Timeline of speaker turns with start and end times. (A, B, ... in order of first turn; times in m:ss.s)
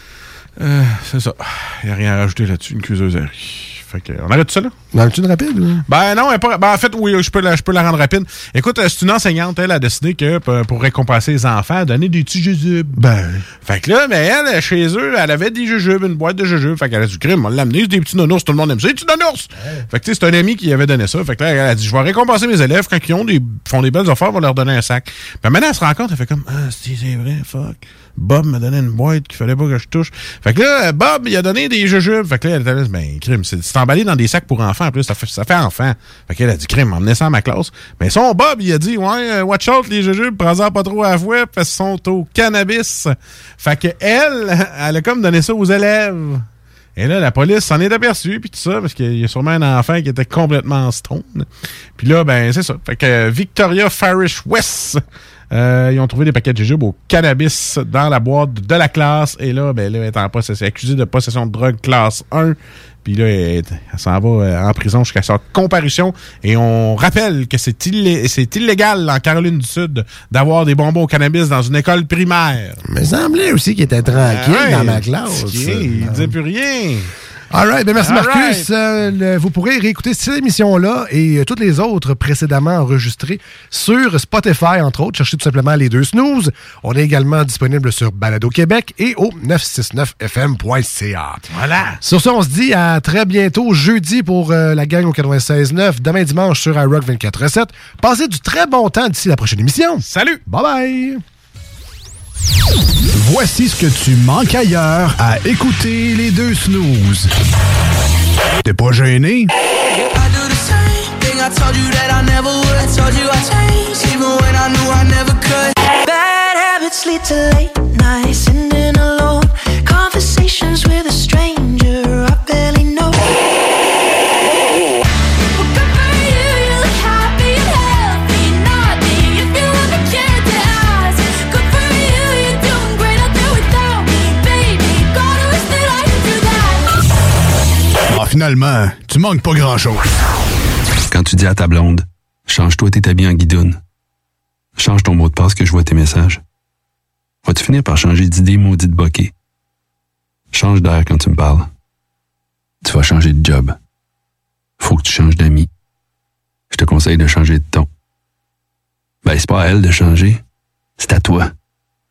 0:00.6-0:04.7 A
0:04.9-0:05.8 B
0:05.9-0:13.0 A
0:13.0-0:13.4 B
0:13.6-0:46.4 A
0:47.0-1:12.8 A
1:12.8-1:16.3 B
1:14.2-1:17.1 A
1:17.5-1:31.4 B
1:18.0-1:18.7 A
1:31.5-1:32.0 A
1:32.0-1:41.2 B
1:40.0-1:40.4 A
1:43.1-1:47.3 C
1:48.6-1:49.5 C
1:50.1-2:03.3 D
2:18.1-2:20.0 C
2:21.1-2:23.8 E
2:24.8-2:26.4 E
2:27.4-2:29.3 E
2:30.5-2:31.7 E
2:32.8-2:33.7 E
2:34.8-2:35.7 E
2:36.7-2:37.9 E
2:39.2-2:40.4 E
2:41.0-2:41.5 E